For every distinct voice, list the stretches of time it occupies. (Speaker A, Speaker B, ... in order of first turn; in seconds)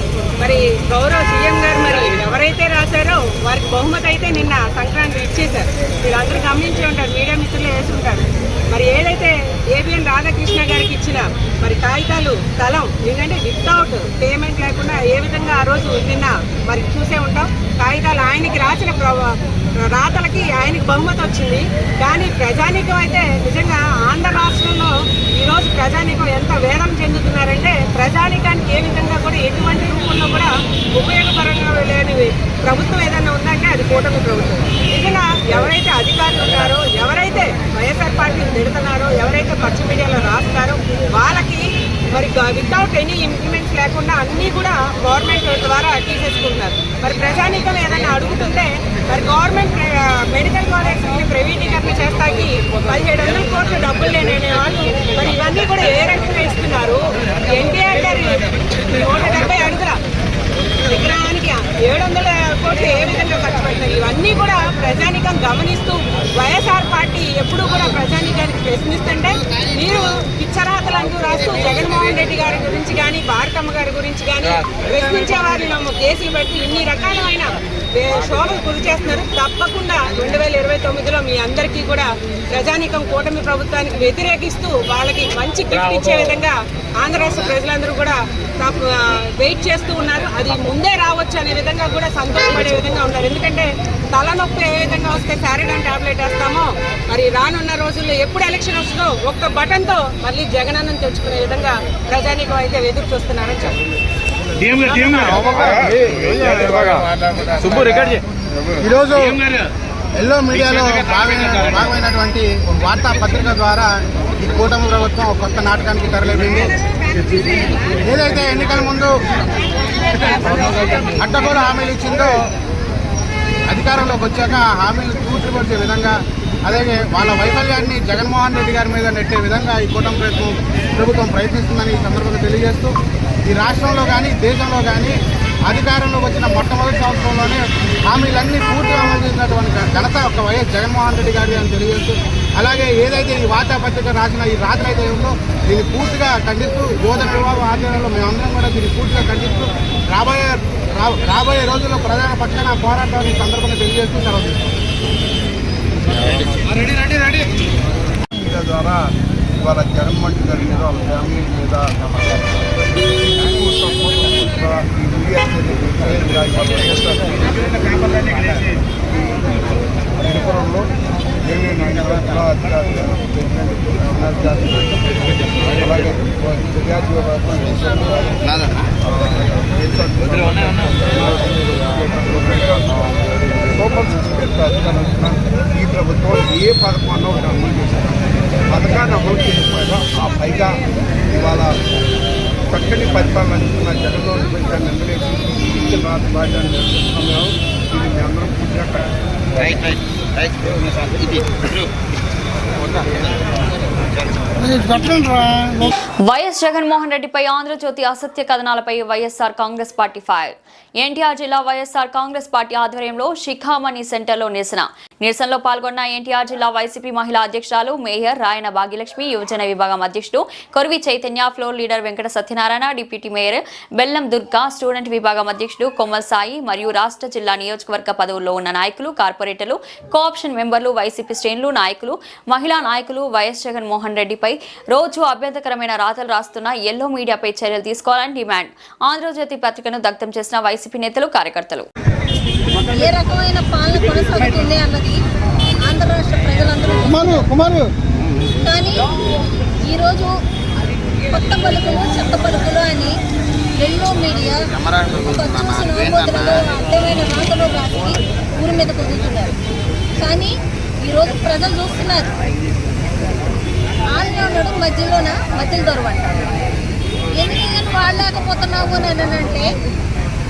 Speaker A: 0.4-19.4, 19.9-60.0, 60.9-103.8, 104.8-105.8, 116.4-118.0, 120.0-121.2
Speaker B: 105.4-108.2, 158.3-161.9, 163.1-168.5, 169.1-170.9, 171.4-175.0, 175.7-182.9, 183.7-191.8, 192.7-199.1
Speaker C: 108.8-109.4, 110.1-116.7, 118.0-119.2, 121.2-122.5, 123.7-154.7, 254.8-255.1
Speaker D: 205.1-241.9
Speaker E: 242.9-245.2, 245.8-247.8, 248.6-249.1, 249.8-250.3, 251.3-253.2, 253.8-259.5, 260.2-262.3, 264.1-266.4, 267.3-269.7